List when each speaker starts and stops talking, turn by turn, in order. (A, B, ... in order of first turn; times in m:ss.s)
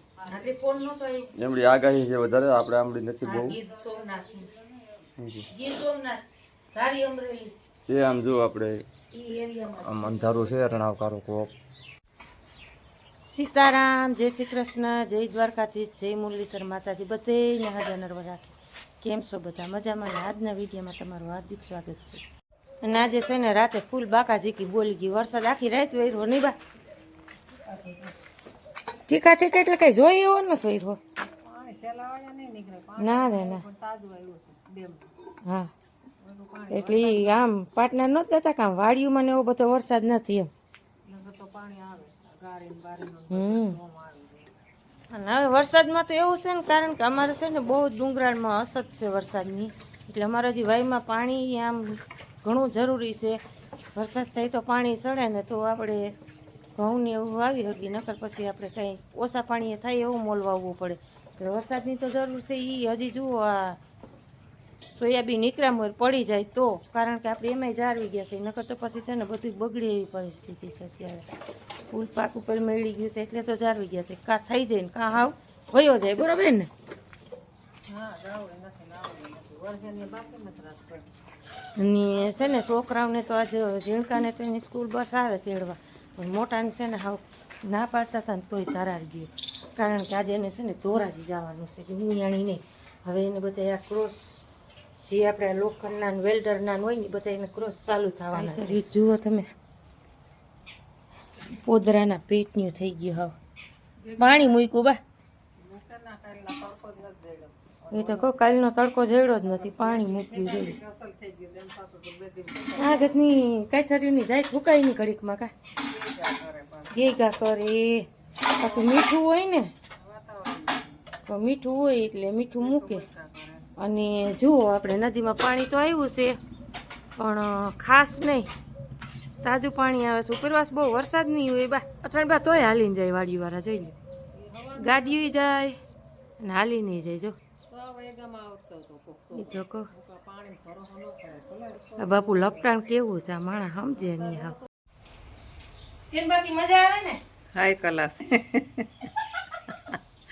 0:00.2-0:01.3 A
0:01.4-0:03.6 B
0:03.2-0:04.5 A
0:03.6-0:04.5 C
0:05.2-0:05.4 B
0:05.5-0:06.2 A
0:06.7-0:07.5 A
0:07.9-0:08.8 B
0:09.1-0:10.5 A
0:09.8-0:11.5 B
0:13.3-0:22.2 A
0:22.8-0:26.5 A
0:29.1-0:31.0 A
0:31.2-0:35.1 C
0:33.0-0:33.6 A
0:35.4-0:35.7 A
0:36.2-0:37.4 C
0:36.7-0:40.5 A
0:41.1-0:44.5 C
0:43.3-0:43.8 A
0:45.1-0:53.4 A
0:54.0-0:56.1 A
0:56.8-1:03.8 A
1:05.0-1:11.3 A
1:11.9-1:16.7 A
1:17.9-1:21.0 C
1:21.8-1:34.4 A
1:35.0-1:39.5 A
1:38.3-1:38.8 C
1:41.5-1:43.3 A
1:44.0-1:44.6 C
1:44.2-1:45.0 A
1:45.6-1:48.6 C
1:47.9-1:50.8 A
1:49.4-1:53.2 C
1:52.8-1:55.5 A
1:55.7-1:57.2 C
1:56.9-1:59.7 A
1:58.6-1:58.9 C
2:00.0-2:01.0 C
2:01.3-2:03.0 A
2:02.5-2:03.7 C
2:03.8-2:06.4 A
2:07.2-2:08.5 A
2:09.4-2:13.9 A
2:14.4-2:15.3 C
2:14.8-2:15.8 A
2:16.4-2:17.4 A
2:17.7-2:22.7 C
2:19.4-2:19.9 A
2:22.0-2:24.6 A
2:24.0-2:24.6 C
2:26.1-2:27.2 A
2:27.5-2:29.1 C
2:29.4-2:29.6 A